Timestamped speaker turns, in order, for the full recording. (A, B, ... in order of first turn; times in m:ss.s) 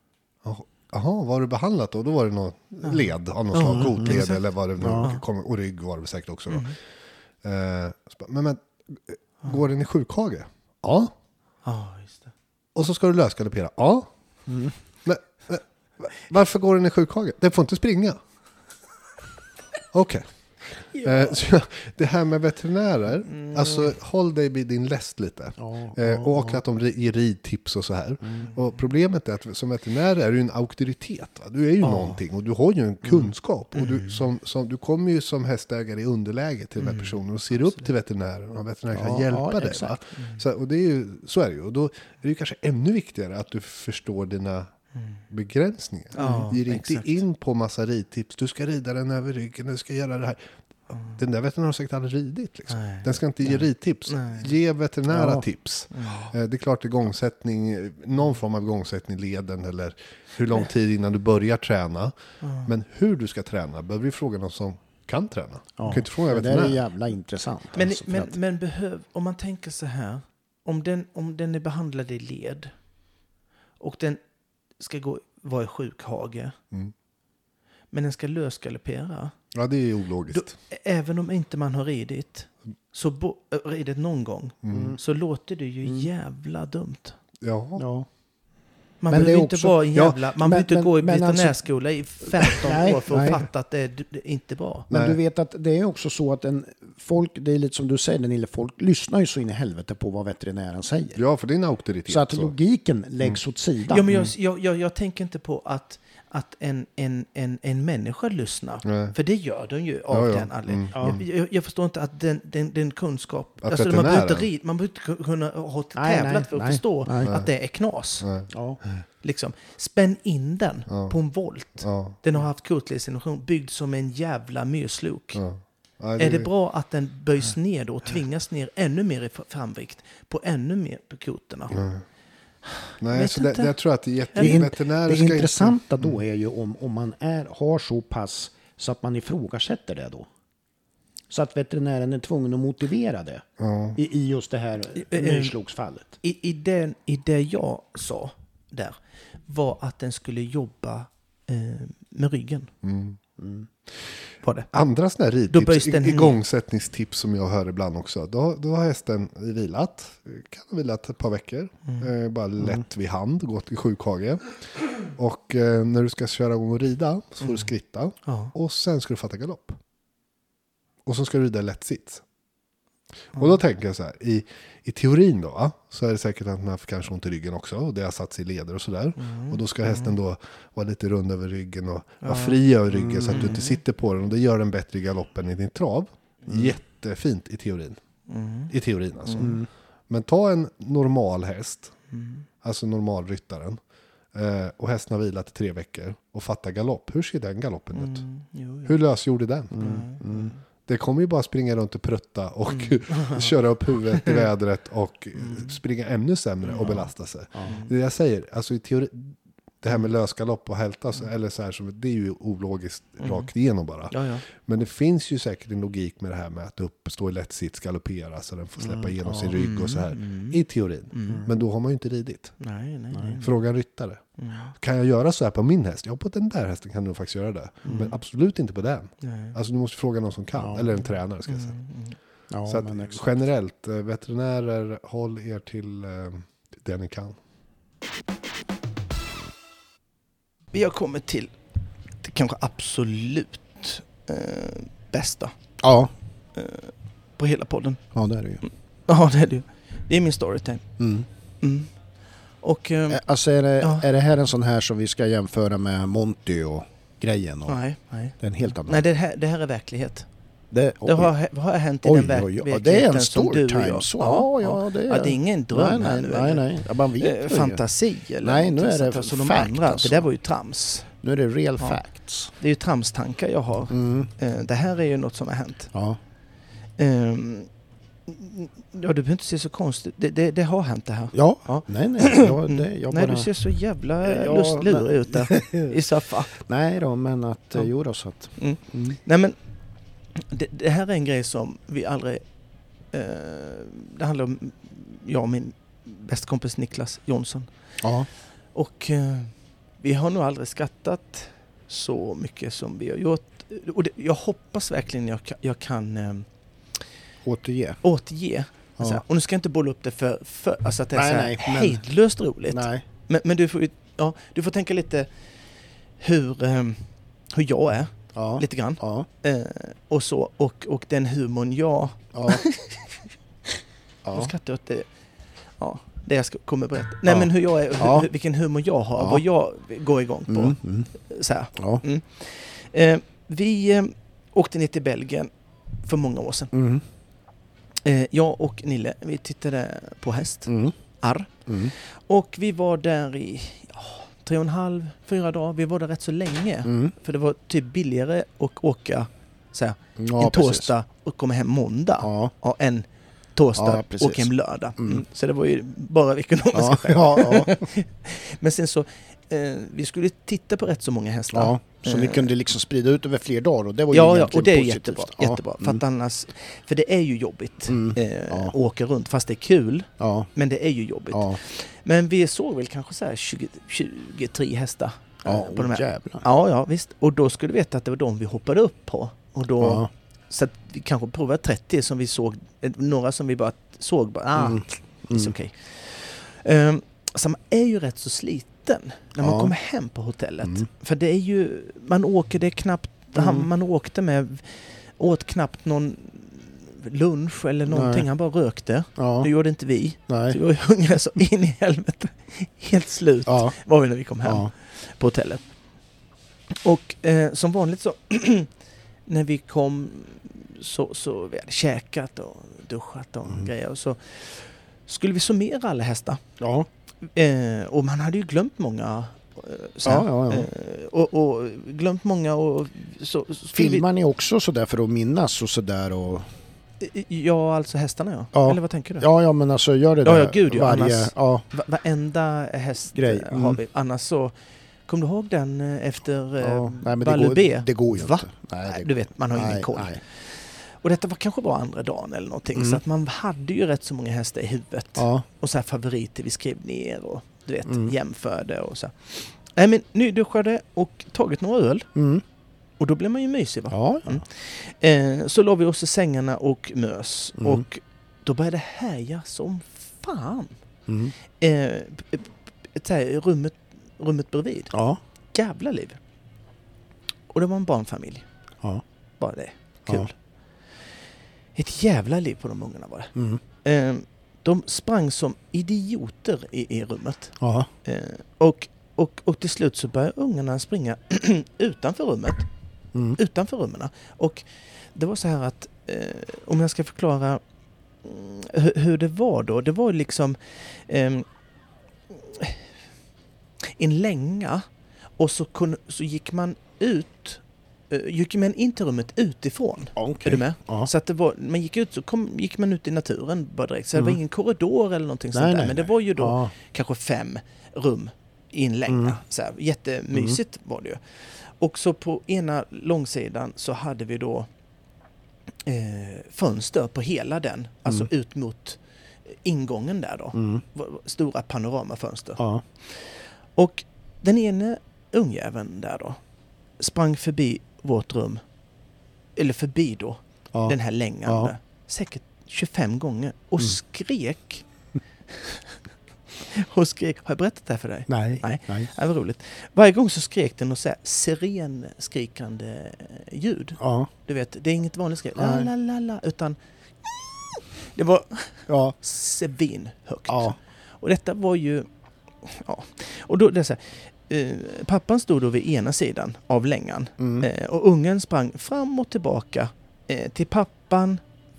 0:00.4-0:06.7 A
0:02.8-0:04.4 B
0:03.7-0:04.2 C
0:04.8-0:05.1 C
0:06.5-0:06.7 B
0:07.4-0:11.1 A
0:11.6-0:12.3 B
0:12.7-0:14.1 A
0:14.5-0:14.7 C
0:15.0-0:18.2 A
0:19.9-0:20.2 A
0:20.9-0:21.4 B
0:21.0-0:44.7 A
0:23.3-0:23.9 B
0:25.6-0:26.6 C
0:31.8-0:32.2 B
0:33.7-0:34.2 B
0:36.8-0:37.9 B
0:38.9-0:40.0 C
0:40.2-0:40.4 B
0:45.3-0:50.4 A
0:46.1-0:47.2 B
0:51.1-1:06.8 A
0:52.7-0:54.5 B
0:55.1-0:55.4 C
0:55.9-0:56.3 B
1:02.4-1:02.7 B
1:05.8-1:08.3 C
1:07.7-1:12.7 B
1:13.8-1:14.2 B
1:14.8-1:16.6 B
1:17.9-1:19.3 B
1:19.5-1:20.5 A
1:20.3-1:27.2 B
1:24.6-1:25.0 A
1:24.7-1:25.0 C
1:27.4-1:27.8 A
1:27.8-1:28.1 C
1:29.0-1:34.9 B
1:29.1-1:31.6 C
1:32.4-1:33.4 C
1:34.9-1:35.2 A
1:34.9-1:41.2 C
1:41.2-1:42.5 A
1:42.1-1:44.1 C
1:43.9-1:58.2 B
1:48.8-1:49.2 A
1:50.1-1:51.2 A
1:50.9-1:51.2 C
1:53.6-1:54.5 A
1:56.0-1:57.3 C
1:57.2-1:57.5 A
1:58.2-1:59.0 A
1:58.5-1:58.8 C
1:59.2-2:05.4 B
2:00.9-2:01.2 A
2:01.8-2:02.2 A
2:05.4-2:06.5 A
2:06.2-2:11.8 B
2:11.7-2:12.0 A
2:12.7-2:13.7 B
2:13.0-2:16.2 A
2:14.3-2:14.6 B
2:14.4-2:20.3 C
2:21.3-2:26.2 C
2:23.6-2:24.0 A
2:25.0-2:25.5 B
2:26.2-2:32.7 B
2:32.8-2:33.2 A
2:33.4-2:33.7 C
2:34.4-2:34.7 B
2:34.7-2:49.8 A
2:35.5-2:36.4 B
2:48.2-2:48.5 B
2:51.0-2:52.2 A
2:53.3-3:08.0 A
2:59.2-3:00.2 B
3:02.2-3:02.6 B
3:02.9-3:03.5 C
3:03.3-3:03.8 B
3:08.3-3:08.7 B
3:08.7-3:11.9 A
3:09.2-3:09.6 B
3:09.4-3:09.7 C
3:12.1-3:12.4 B
3:12.6-3:13.8 A
3:14.3-3:18.2 A
3:17.9-3:19.0 B
3:18.8-3:20.0 A
3:19.7-3:20.5 C
3:19.8-3:20.6 B
3:20.8-3:42.6 A
3:22.7-3:23.5 B
3:24.2-3:24.4 B
3:25.4-3:25.8 B
3:26.6-3:27.1 B
3:27.6-3:27.9 B
3:33.2-3:33.5 B
3:34.1-3:34.4 B
3:38.8-3:39.6 C
3:39.5-3:40.6 B
3:41.1-3:41.4 B
3:42.6-3:43.6 B
3:43.1-3:43.4 C
3:43.4-3:44.2 A
3:44.4-3:44.7 B
3:44.8-3:51.8 A
3:47.8-3:48.2 B
3:49.2-3:49.6 B
3:50.5-3:50.9 C
3:51.5-3:52.2 B
3:52.5-3:53.2 C
3:52.6-3:57.4 A
4:00.7-4:01.5 B
4:02.2-4:05.5 B
4:05.8-4:06.1 C
4:06.5-4:08.0 B
4:08.1-4:08.6 C
4:08.6-4:10.9 B
4:11.0-4:11.3 C
4:11.6-4:11.9 B
4:12.6-4:13.2 B
4:13.1-4:17.8 C
4:13.8-4:14.1 B
4:17.7-4:20.3 B
4:18.4-4:19.0 C
4:20.7-4:21.3 C
4:21.0-4:31.1 B
4:22.0-4:27.8 C
4:28.4-4:30.3 C
4:31.1-4:32.5 C
4:32.5-4:35.9 B
4:33.9-4:34.3 C
4:35.9-4:36.2 C
4:37.0-4:37.7 B
4:38.3-4:46.6 B
4:41.3-4:43.5 C
4:44.2-4:46.0 C
4:46.5-4:49.2 C
4:48.6-4:49.6 B
4:50.3-4:52.4 B
4:53.1-4:57.7 B
4:58.0-4:58.3 C
4:58.7-5:06.4 B
5:07.4-5:08.0 C
5:08.0-5:15.3 B
5:09.0-5:09.2 C
5:11.1-5:12.0 C
5:12.7-5:13.0 C
5:16.2-5:23.2 B
5:18.3-5:19.3 C
5:22.3-5:22.6 C
5:24.2-5:24.5 C
5:24.3-5:25.1 B
5:25.8-5:35.5 B
5:27.2-5:28.3 C
5:29.2-5:29.4 C
5:30.5-5:31.1 C
5:31.8-5:32.0 C
5:36.0-5:36.7 B
5:36.7-5:37.0 C
5:38.0-6:02.5 B
5:40.7-5:40.9 C
5:41.7-5:41.9 C
5:46.8-5:47.1 C
5:50.2-5:50.9 C
5:52.2-5:52.5 C
5:53.8-5:55.2 C
5:56.7-5:57.7 C
6:01.5-6:06.0 C
6:04.1-6:45.6 B
6:07.9-6:08.7 C
6:10.2-6:10.5 C
6:11.3-6:11.6 C
6:15.4-6:16.4 C
6:19.8-6:20.1 C
6:24.6-6:25.5 C
6:29.4-6:29.7 C
6:33.4-6:33.7 C
6:37.9-6:38.3 C
6:39.2-6:39.5 C
6:40.3-6:40.6 C
6:43.4-6:43.8 C
6:44.4-6:44.7 C
6:46.8-6:48.7 B
6:49.2-6:56.4 B
6:56.6-6:56.9 C
6:57.2-7:04.0 B
7:00.0-7:00.7 C
7:03.7-7:06.5 C
7:07.0-7:09.3 B
7:08.5-7:11.6 C
7:10.2-7:14.5 B
7:13.1-7:13.8 C
7:15.0-7:32.1 B
7:16.6-7:20.2 C
7:22.7-7:23.0 C
7:25.2-7:25.4 C
7:27.8-7:28.1 C
7:32.1-7:32.4 C
7:33.0-7:40.8 B
7:33.9-7:34.4 C
7:37.6-7:37.8 C
7:41.1-7:41.3 C
7:41.6-7:44.9 B
7:44.9-7:45.2 C
7:45.5-7:46.2 B
7:47.5-7:48.4 B
7:49.4-7:50.3 B
7:51.7-7:53.3 B
7:53.3-7:53.6 C
7:53.8-8:02.7 B
7:57.6-7:57.9 C
8:03.1-8:03.4 C
8:03.4-8:07.6 B
8:08.2-8:11.4 B
8:12.3-8:12.8 B
8:13.9-8:14.8 B
8:15.4-8:34.7 B
8:20.2-8:21.1 C
8:25.5-8:26.7 C
8:29.1-8:29.4 C
8:35.8-8:46.4 B
8:40.5-8:40.8 C
8:42.6-8:42.8 C
8:47.0-8:48.6 B
8:49.6-8:54.8 B
8:50.7-8:51.7 C
8:55.5-8:56.0 B
8:56.7-9:12.1 B
8:58.3-8:59.1 C
9:04.0-9:04.3 C
9:05.6-9:05.9 C
9:08.9-9:09.1 C
9:10.5-9:10.8 C
9:12.6-9:21.4 B
9:17.4-9:17.7 C